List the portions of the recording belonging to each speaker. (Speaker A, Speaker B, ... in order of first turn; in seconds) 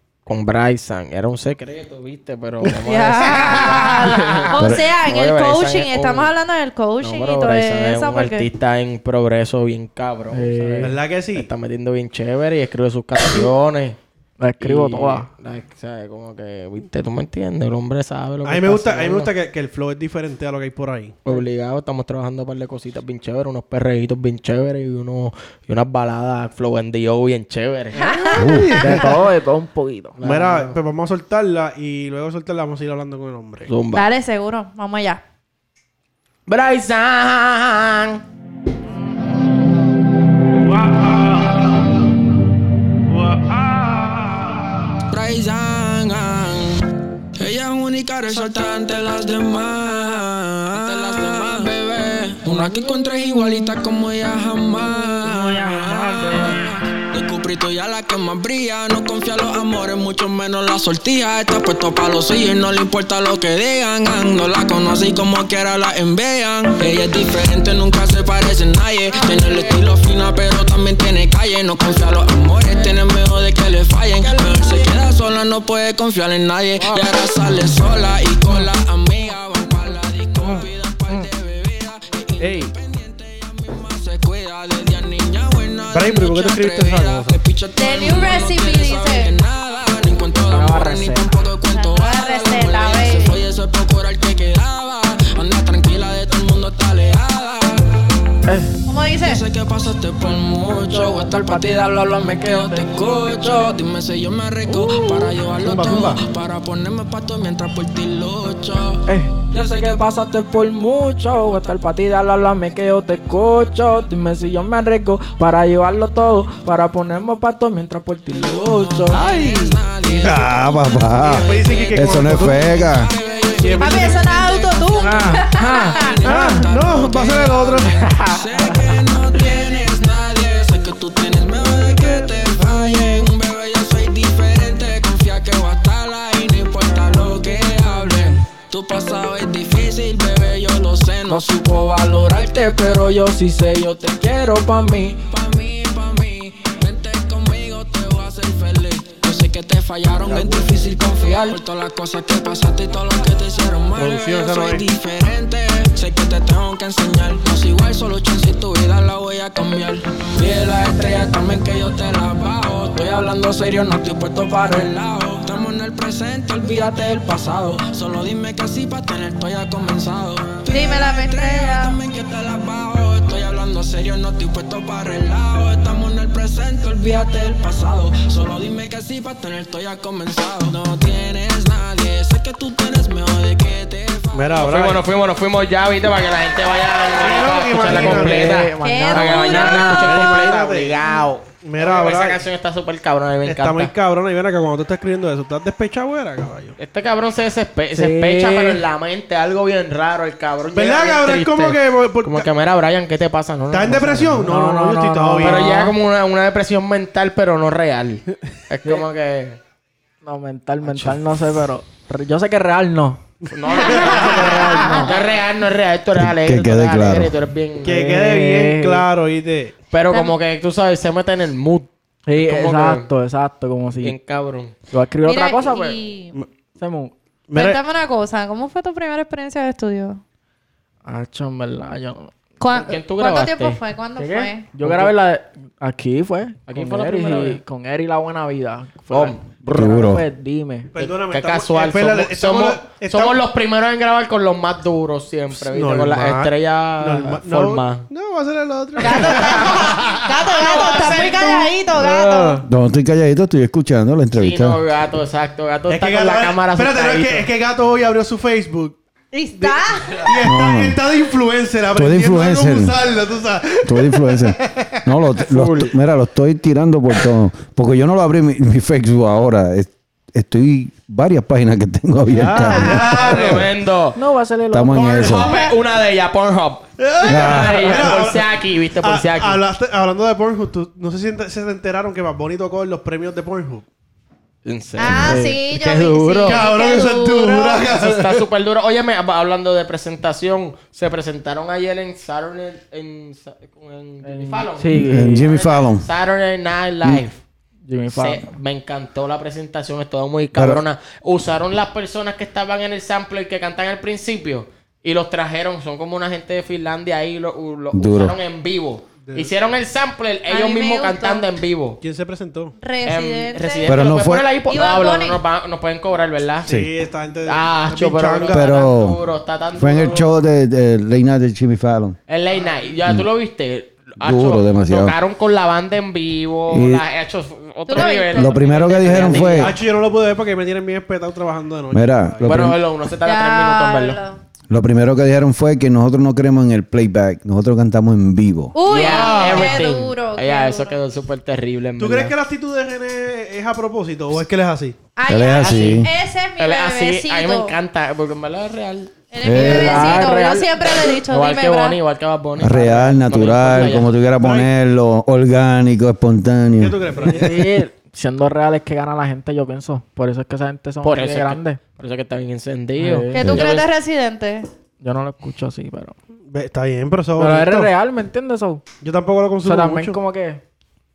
Speaker A: 0.3-6.3, 7.0-14.0, 14.6-19.3, 21.2-28.1, 30.2-30.8, 33.7-34.1, 36.5-38.2, 184.6-193.9, 196.8-204.4, 205.4-209.6, 213.5-218.1, 219.9-223.1, 224.0-224.8, 232.7-233.8, 234.8-235.1, 236.7-237.6, 239.1-239.4, 241.0-248.1, 249.1-249.8, 250.5-251.7, 254.4-257.5, 272.9-274.2, 274.9-279.6, 284.6-286.6, 287.9-297.4, 298.1-312.0, 313.1-316.7, 317.4-320.3, 322.3-329.8, 332.4-334.2, 338.9-342.4, 345.5-349.2, 351.1-354.1, 361.0-363.9
Speaker B: 2.7-8.5, 28.0-28.5, 33.9-35.2, 87.8-89.3, 91.7-93.4, 98.9-99.4, 123.8-126.2, 170.7-172.0, 188.8-190.0, 225.2-226.3, 227.6-230.2, 232.6-234.7, 249.0-252.6, 259.3-260.3, 275.4-275.7, 285.0-287.9, 310.5-311.5, 312.8-314.0, 314.7-315.4, 327.9-328.6, 333.2-334.4, 338.7-341.0, 345.2-347.8, 349.3-352.0, 363.3-364.7
Speaker C: 3.3-3.9, 10.8-11.5, 18.4-21.2, 28.3-29.1, 30.2-33.7, 82.4-82.7, 85.9-87.4, 105.5-106.2, 121.2-122.8, 123.6-124.2, 126.2-128.2, 154.0-154.9, 184.3-185.0, 187.1-188.7, 189.8-191.1, 191.6-192.4, 193.4-196.8, 200.7-202.5, 203.7-205.9, 213.7-215.0, 217.8-219.8, 227.5-227.8, 240.9-243.4, 245.6-252.6, 255.9-259.0, 259.6-265.0, 272.3-273.7, 277.0-278.5, 279.0-283.9, 286.4-288.4, 309.2-309.5, 312.0-312.8, 316.6-318.8, 329.1-332.8, 338.9-339.9, 342.0-345.0, 354.4-354.7, 356.8-357.6, 366.5-367.9, 369.0-370.2
Speaker D: 4.6-4.8, 28.4-28.9, 120.2-123.1, 216.2-217.3, 239.7-240.2, 252.7-254.8, 260.4-261.0, 261.9-263.0, 263.9-273.6, 274.7-275.5, 277.2-277.9, 294.9-296.1, 300.5-300.8, 307.9-308.4, 313.9-314.5, 318.5-319.2, 319.8-322.2, 324.2-325.1, 326.7-327.1, 328.3-329.8, 331.9-332.8, 334.7-338.7, 345.3-346.1, 349.4-350.2, 352.6-357.4
Speaker E: 10.3-11.0, 14.4-15.3, 28.7-30.2, 51.3-51.6, 52.5-52.8, 55.2-56.6, 80.4-81.3, 90.5-91.3, 98.5-98.8, 100.7-103.8, 104.7-105.2, 109.1-119.8, 125.0-126.6, 128.2-128.8, 141.3-145.2, 187.8-190.1, 197.9-198.8, 204.3-205.9, 210.2-213.2, 213.9-215.1, 217.9-219.1, 222.3-224.2, 224.9-226.0, 226.8-227.1, 231.1-232.3, 234.2-240.9, 274.1-275.4, 285.2-285.6, 294.2-295.5, 297.9-298.5, 349.6-350.8, 357.2-361.8, 363.0-363.4, 365.0-366.2, 367.4-368.8, 369.6-370.6
Speaker F: 45.1-46.9, 47.4-97.9, 99.2-109.0, 109.6-110.1, 118.4-143.2, 144.1-184.7